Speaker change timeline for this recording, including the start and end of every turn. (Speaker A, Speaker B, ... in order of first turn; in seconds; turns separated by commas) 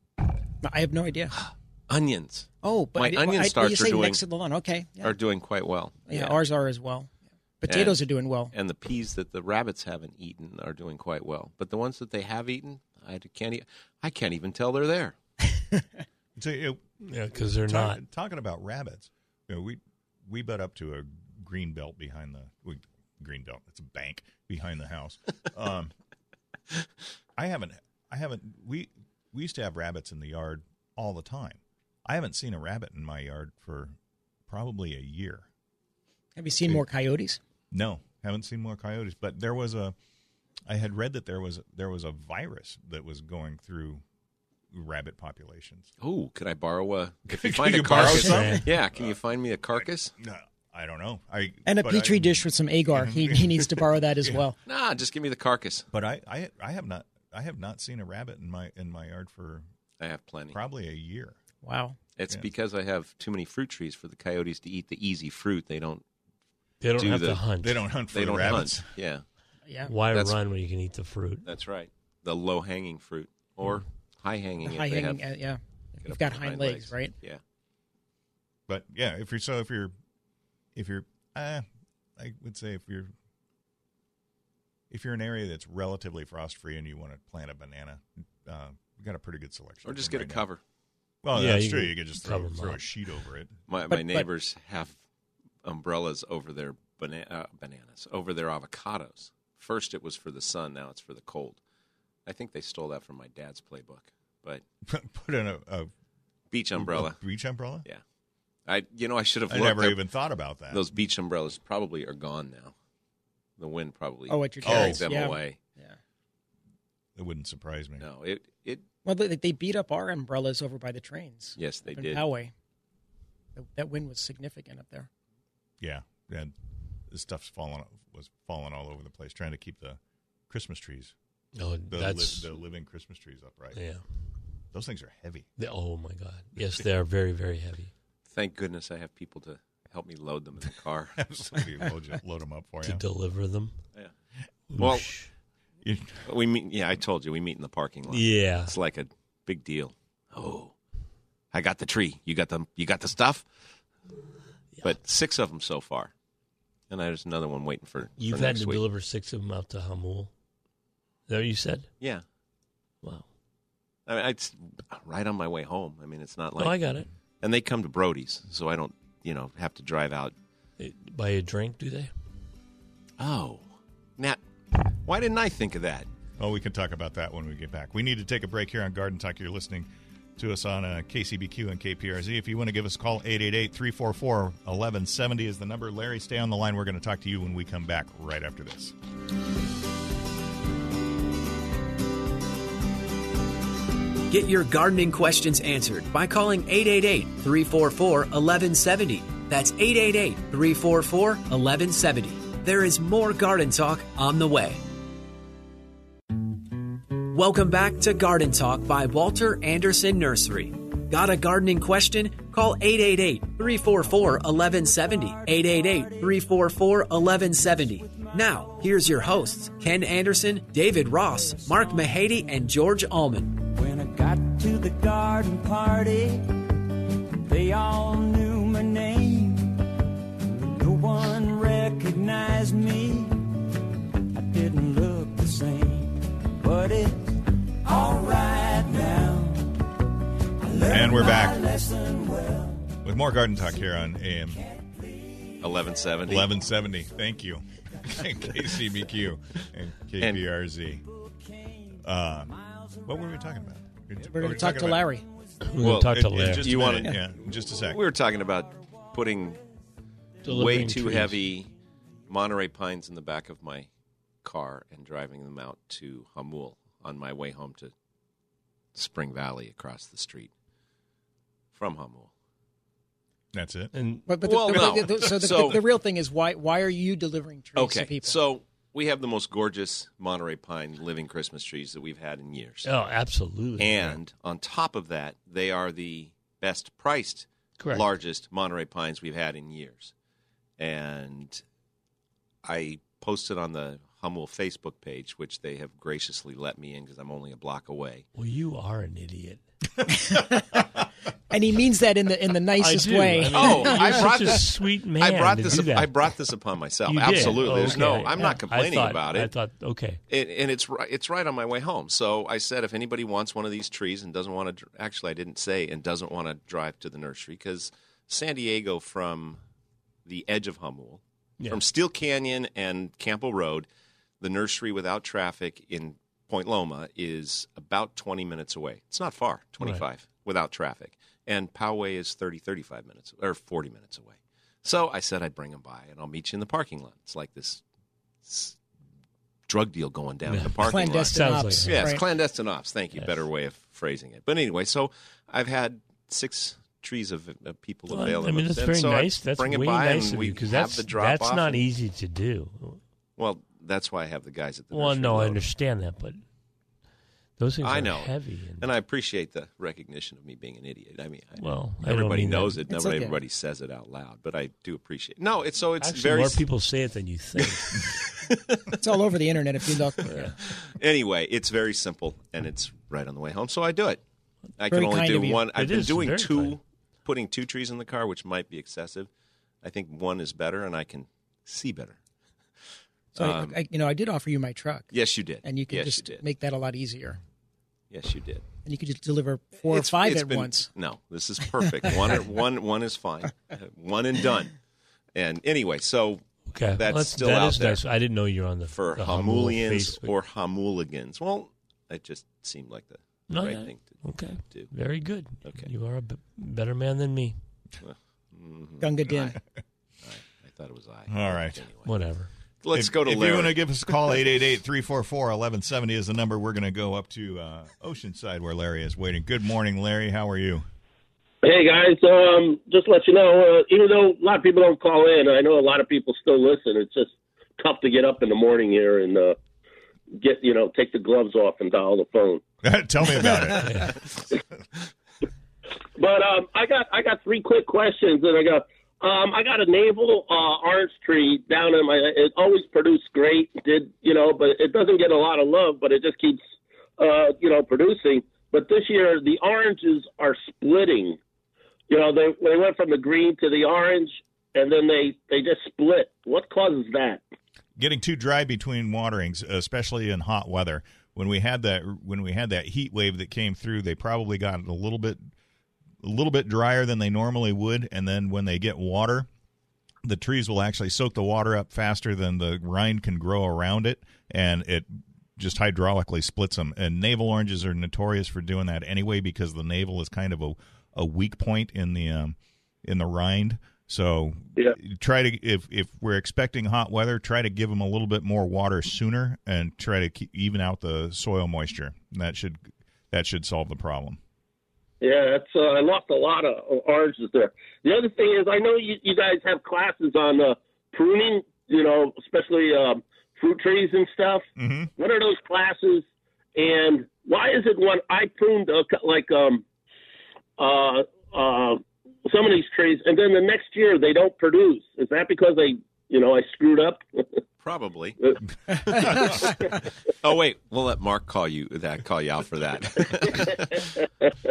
Speaker A: 0.6-1.4, Speaker B: 1.4-4.2, Speaker A: 2.6-5.2, Speaker B: 5.0-6.4, Speaker A: 6.1-8.5, Speaker B: 7.7-15.2, Speaker C: 16.4-16.8, Speaker D: 17.0-18.0, Speaker C: 17.6-25.9, Speaker C: 27.4-34.0, Speaker C: 34.5-35.5, Speaker A: 36.4-37.4, Speaker C: 37.7-40.0, Speaker C: 40.7-44.0, Speaker C: 44.7-45.9, Speaker B: 46.0-50.1, Speaker C: 47.3-49.2, Speaker D: 48.0-48.6, Speaker C: 50.2-54.4, Speaker A: 51.7-54.6, Speaker B: 54.7-55.9, Speaker C: 55.9-59.7, Speaker B: 60.0-60.6, Speaker C: 60.5-61.4, Speaker A: 61.6-62.0, Speaker B: 62.2-66.0, Speaker D: 66.8-67.8, Speaker B: 67.0-67.4, Speaker C: 67.6-68.9, Speaker B: 68.1-69.2, Speaker A: 69.7-69.9, Speaker D: 69.9-71.5, Speaker B: 71.5-75.3, Speaker A: 74.6-77.2, Speaker B: 76.0-77.4, Speaker C: 78.7-79.9, Speaker C: 80.8-81.7, Speaker C: 82.2-83.1, Speaker C: 84.9-90.5, Speaker B: 89.8-90.6, Speaker C: 91.2-93.6, Speaker D: 91.3-92.9, Speaker B: 93.7-95.0, Speaker A: 93.9-94.3, Speaker B: 95.6-101.6, Speaker B: 102.3-104.6, Speaker C: 104.8-105.9, Speaker B: 106.5-107.2, Speaker C: 106.8-107.9, Speaker B: 108.7-110.0, Speaker C: 109.5-110.9, Speaker B: 110.7-112.7, Speaker B: 113.6-115.6, Speaker A: 114.3-116.0, Speaker C: 114.6-115.0, Speaker C: 117.2-118.1, Speaker B: 118.0-118.8, Speaker A: 119.0-122.5, Speaker B: 121.6-122.2, Speaker A: 123.6-125.1, Speaker C: 125.8-126.5, Speaker C: 127.1-131.1, Speaker D: 131.6-132.5, Speaker C: 131.9-133.8, Speaker D: 133.8-134.0, Speaker C: 134.7-135.5, Speaker D: 135.6-137.9, Speaker B: 138.3-141.2, Speaker C: 141.2-143.0, Speaker D: 142.8-143.8, Speaker D: 144.7-145.3, Speaker B: 144.8-145.1, Speaker C: 145.8-146.3, Speaker B: 146.2-150.7, Speaker D: 148.1-148.7, Speaker B: 151.5-153.5, Speaker B: 154.8-156.1, Speaker B: 156.9-158.8, Speaker D: 158.2-160.3, Speaker D: 161.3-161.9, Speaker B: 164.1-166.8, Speaker D: 166.6-167.1, Speaker B: 167.4-170.3, Speaker D: 170.8-172.1, Speaker B: 173.2-174.4, Speaker B: 174.9-176.1, Speaker C: 176.4-188.9, Speaker E: 194.3-204.8, Speaker E: 207.2-223.6, Speaker F: 215.6-216.1, Speaker F: 218.0-218.7, Speaker F: 223.6-226.7, Speaker F: 227.3-229.9, Speaker F: 230.4-233.6, Speaker F: 234.3-240.0, Speaker F: 240.6-243.0, Speaker C: 240.9-241.7, Speaker C: 243.0-244.6, Speaker F: 244.5-245.6, Speaker B: 245.6-246.5, Speaker C: 246.3-251.1, Speaker C: 252.0-255.1, Speaker F: 252.5-253.3, Speaker A: 254.2-255.3, Speaker D: 255.6-257.0, Speaker B: 255.8-259.6, Speaker C: 256.0-258.0, Speaker D: 260.4-261.4, Speaker B: 260.4-261.7, Speaker B: 262.3-263.9, Speaker B: 264.4-267.9, Speaker B: 268.9-270.5, Speaker B: 271.7-272.3, Speaker C: 273.5-273.9, Speaker D: 273.9-274.3, Speaker A: 274.3-278.4, Speaker B: 274.4-275.8, Speaker B: 277.8-282.9, Speaker D: 282.8-284.2, Speaker B: 283.8-290.1, Speaker D: 287.8-288.1, Speaker B: 290.8-291.6, Speaker B: 292.6-298.2, Speaker D: 298.4-299.6, Speaker A: 300.1-300.9, Speaker A: 301.5-304.3, Speaker D: 302.8-306.3, Speaker B: 303.5-309.5, Speaker D: 307.1-310.2, Speaker A: 308.0-308.4, Speaker B: 310.3-319.6, Speaker B: 320.3-323.9, Speaker B: 324.4-337.8, Speaker B: 338.4-338.8, Speaker B: 339.7-351.8, Speaker D: 340.5-342.2, Speaker A: 340.8-342.2, Speaker D: 348.1-353.0, Speaker B: 353.4-355.6, Speaker D: 354.9-356.4, Speaker D: 357.6-358.9, Speaker B: 357.8-366.6, Speaker D: 361.6-362.8, Speaker A: 362.9-363.4, Speaker D: 366.0-368.3, Speaker B: 367.8-369.0, Speaker A: 368.9-370.5, Speaker D: 370.3-370.6, Speaker B: 370.6-374.2, Speaker B: 374.8-379.3, Speaker A: 374.9-375.6, Speaker D: 375.7-376.8, Speaker B: 379.8-382.2, Speaker B: 383.4-383.8, Speaker A: 383.4-385.1, Speaker B: 385.1-386.4, Speaker A: 385.6-387.4, Speaker B: 388.1-388.6, Speaker A: 388.9-390.9, Speaker B: 389.9-394.8, Speaker B: 395.4-398.0, Speaker D: 396.7-400.4, Speaker B: 398.9-404.9, Speaker D: 403.5-407.6, Speaker B: 405.6-405.9, Speaker B: 408.0-409.6, Speaker A: 409.0-409.6, Speaker B: 410.2-412.1, Speaker C: 411.3-411.8, Speaker D: 412.1-412.5, Speaker B: 412.8-413.8, Speaker C: 412.9-420.9, Speaker G: 421.6-429.6, Speaker G: 430.3-432.6, Speaker C: 432.8-434.2, Speaker D: 433.8-434.1, Speaker G: 436.2-446.6, Speaker G: 447.2-451.4, Speaker G: 452.1-457.4, Speaker C: 458.0-465.4, Speaker C: 466.2-469.5, Speaker C: 470.2-494.4, Speaker G: 495.2-504.6, Speaker C: 504.8-505.1, Speaker G: 505.2-509.8, Speaker G: 510.8-517.5, Speaker B: 517.8-524.2